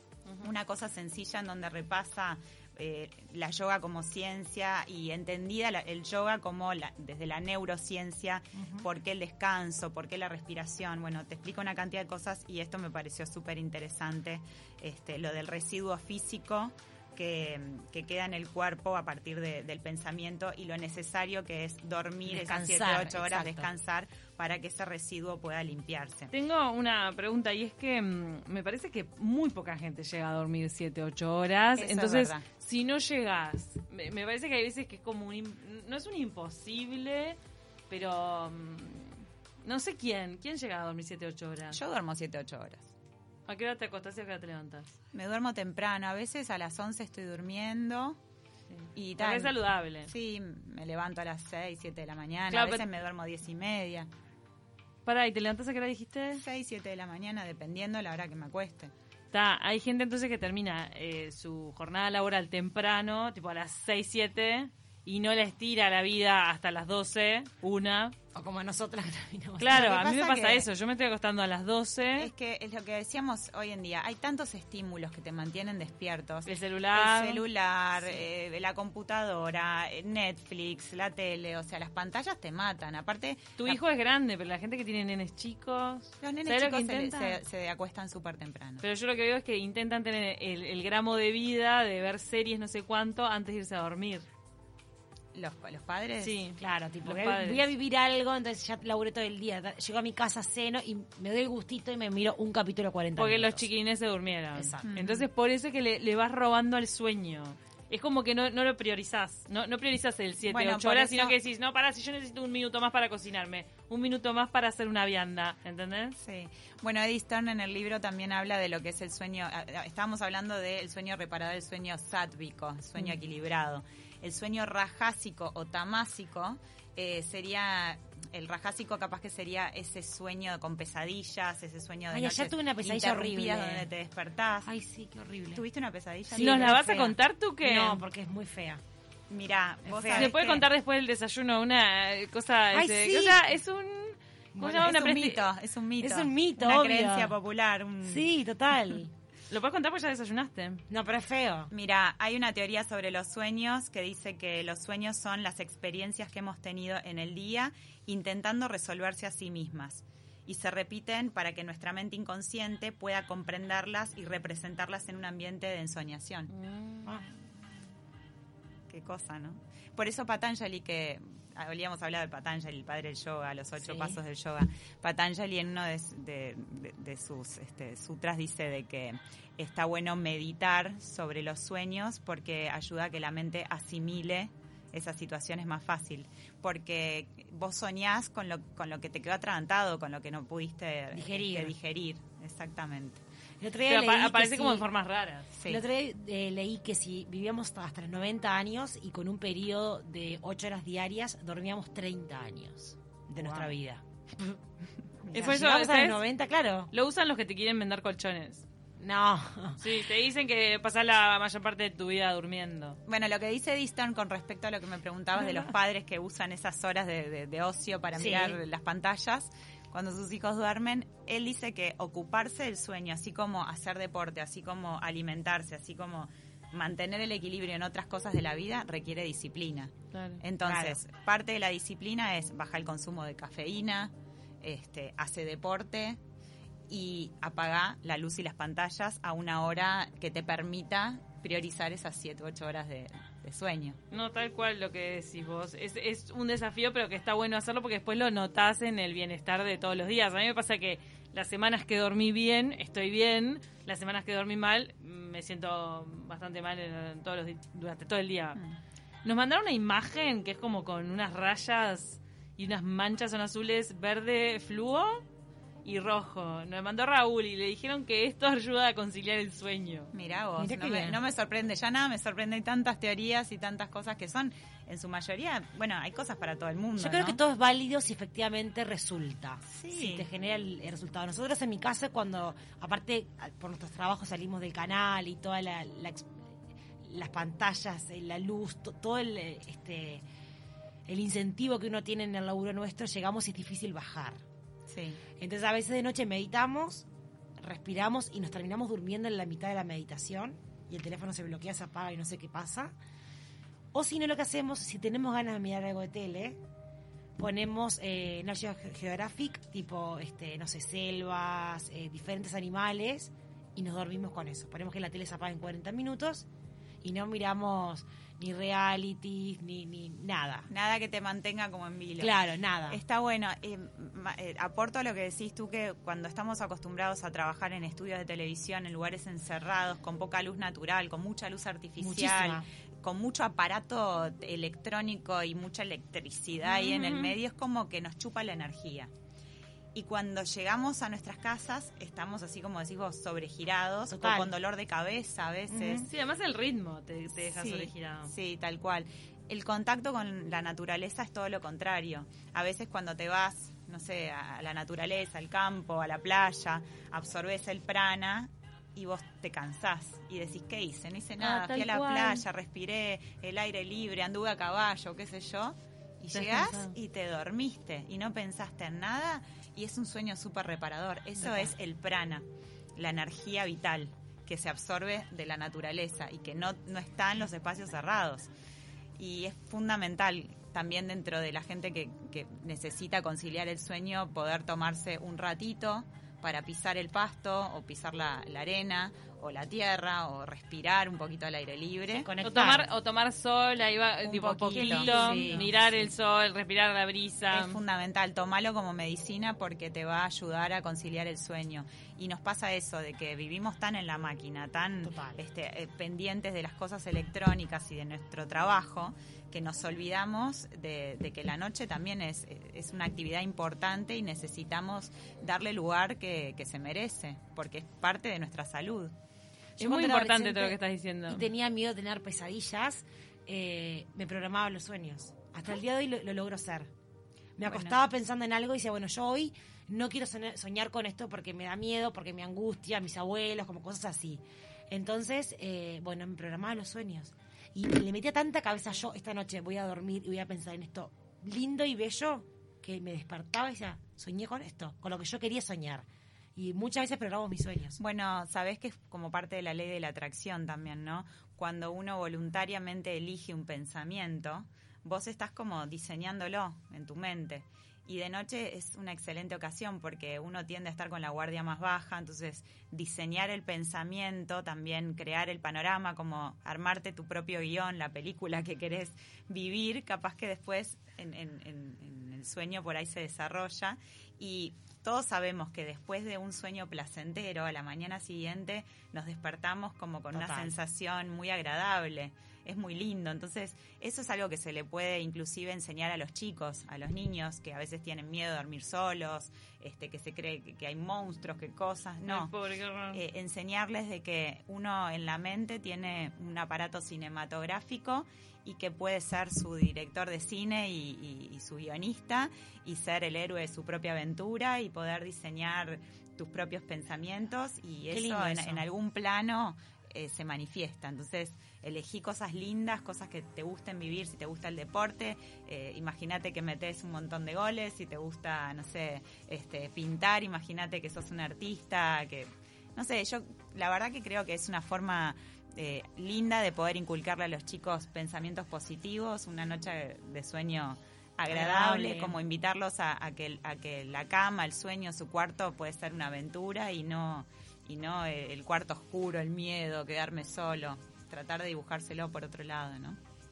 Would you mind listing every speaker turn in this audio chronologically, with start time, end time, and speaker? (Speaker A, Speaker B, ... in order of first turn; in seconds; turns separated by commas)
Speaker A: 0.4-26.3, Speaker B: 8.5-8.8, Speaker B: 22.2-23.7, Speaker C: 26.3-37.4, Speaker A: 31.8-32.5, Speaker C: 37.9-41.8, Speaker A: 41.7-42.9, Speaker C: 43.5-44.9, Speaker A: 45.1-48.2, Speaker C: 48.7-50.1, Speaker A: 48.9-49.5, Speaker A: 50.0-54.1, Speaker C: 52.5-52.9, Speaker C: 55.0-56.4, Speaker A: 56.3-58.9, Speaker C: 59.3-68.2, Speaker B: 68.3-69.8, Speaker C: 69.6-72.3, Speaker A: 69.7-70.7, Speaker A: 72.2-83.8, Speaker C: 76.5-78.2, Speaker C: 83.6-87.4, Speaker A: 86.2-88.8, Speaker C: 88.8-94.2, Speaker A: 95.3-96.4, Speaker C: 96.2-97.7, Speaker B: 96.6-103.7, Speaker C: 103.2-116.2, Speaker B: 104.5-104.8, Speaker A: 104.8-105.2, Speaker A: 110.4-111.3, Speaker A: 116.2-134.7, Speaker B: 132.1-133.9, Speaker B: 134.6-135.6, Speaker A: 135.5-137.1, Speaker B: 136.3-136.8, Speaker C: 136.3-138.0, Speaker B: 137.6-138.8, Speaker A: 139.3-140.7, Speaker B: 139.8-140.3, Speaker C: 140.1-145.4, Speaker B: 142.7-143.4, Speaker B: 144.5-145.0, Speaker A: 144.8-148.2, Speaker B: 146.0-147.4, Speaker B: 148.0-149.1, Speaker C: 149.5-150.8, Speaker B: 150.9-151.7, Speaker A: 151.7-166.5, Speaker C: 166.5-167.3, Speaker A: 168.9-193.2, Speaker B: 173.8-174.2, Speaker B: 191.1-191.8, Speaker B: 193.6-194.9, Speaker C: 193.9-195.5, Speaker A: 195.5-195.8, Speaker B: 195.7-204.0, Speaker A: 203.3-203.7, Speaker A: 205.2-205.6, Speaker B: 205.3-206.9, Speaker C: 205.3-206.2, Speaker C: 206.9-208.6, Speaker B: 209.0-209.8, Speaker C: 209.8-213.0, Speaker A: 213.1-236.2, Speaker B: 215.3-215.7, Speaker B: 218.1-218.6, Speaker C: 230.1-230.4, Speaker B: 230.6-231.0, Speaker A: 236.9-244.0, Speaker C: 244.1-258.6, Speaker C: 259.2-265.2, Speaker C: 265.8-270.1, Speaker A: 270.1-277.4, Speaker B: 270.6-271.2, Speaker B: 277.0-290.2, Speaker A: 279.7-280.3, Speaker B: 291.1-294.4, Speaker A: 294.9-295.2, Speaker B: 295.4-297.1, Speaker B: 297.6-302.9, Speaker B: 303.9-306.6, Speaker B: 307.4-316.5, Speaker B: 317.0-320.7, Speaker A: 320.7-339.1, Speaker B: 322.2-323.0, Speaker B: 332.0-332.7, Speaker C: 336.6-337.4, Speaker A: 339.9-346.1, Speaker B: 344.1-344.5, Speaker B: 345.7-346.1, Speaker C: 345.9-348.3, Speaker A: 347.4-378.5, Speaker C: 361.4-362.4, Speaker C: 366.3-366.9, Speaker B: 371.4-371.7, Speaker A: 379.2-392.3, Speaker B: 392.1-392.9, Speaker C: 392.4-397.8, Speaker A: 394.2-395.7, Speaker B: 394.7-396.1, Speaker A: 397.5-419.1, Speaker B: 405.0-405.4, Speaker B: 419.8-426.9, Speaker C: 419.8-421.4, Speaker B: 427.6-448.0, Speaker A: 427.6-428.0, Speaker A: 448.0-492.5, Speaker B: 480.3-480.8, Speaker C: 492.2-493.2, Speaker A: 493.1-543.2, Speaker B: 508.1-508.9, Speaker B: 531.5-532.4